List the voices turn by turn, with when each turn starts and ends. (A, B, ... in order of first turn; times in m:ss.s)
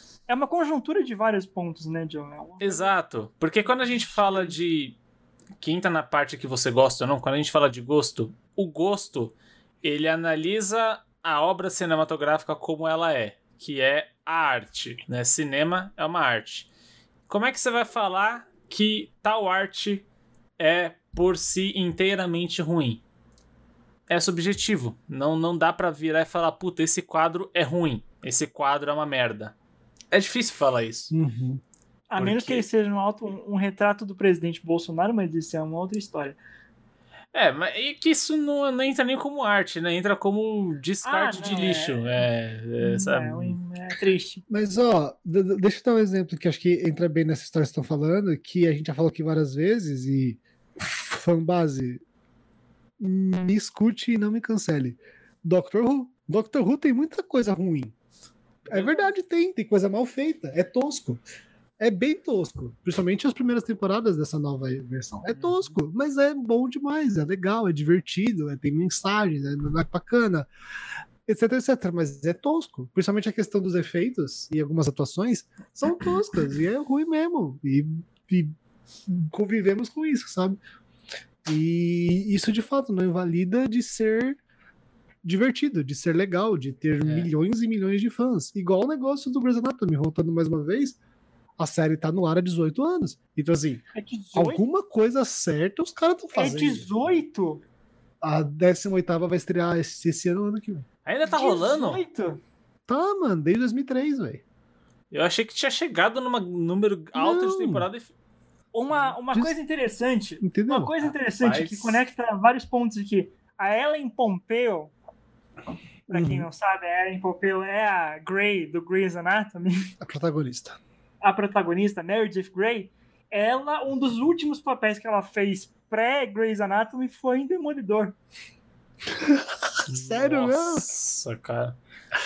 0:00.3-0:02.9 A
0:02.6-0:05.0 B
0:03.8-0:04.5 A
0:05.6-0:16.7 B
0:17.3-0:20.0 B
0:20.6-0:23.0 B
0:24.1-0:29.6 B
0:30.1-0:31.1 B
0:31.1-0:31.6 C
0:32.1-0:36.4 A
0:32.2-0:32.6 B
0:37.3-0:43.6 B
0:41.0-0:42.2 A
0:42.8-0:44.4 A
0:44.5-0:52.0 C
0:53.0-0:58.0 C
0:58.7-0:59.1 B
0:58.7-1:01.2 C
1:01.8-1:10.5 C
1:05.3-1:05.8 B
1:11.3-1:18.6 C
1:19.1-1:20.6 C
1:21.5-1:24.4 C
1:25.2-1:31.0 C
1:27.0-1:27.3 B
1:31.6-1:33.8 C
1:33.9-1:34.6 A
1:34.3-1:36.9 C
1:36.4-1:37.6 A
1:38.2-1:40.8 C
1:41.0-1:42.0 B
1:41.3-1:42.4 A
1:42.9-1:44.4 C
1:45.1-1:48.1 B
1:47.2-1:47.9 C
1:48.7-1:54.9 A
1:49.3-1:49.6 C
1:50.4-1:50.9 C
1:51.4-1:52.0 B
1:56.1-1:59.9 A
1:56.1-1:56.5 C
2:00.0-2:00.8 C
2:01.2-2:08.2 A
2:09.2-2:10.9 C
2:09.9-2:11.8 B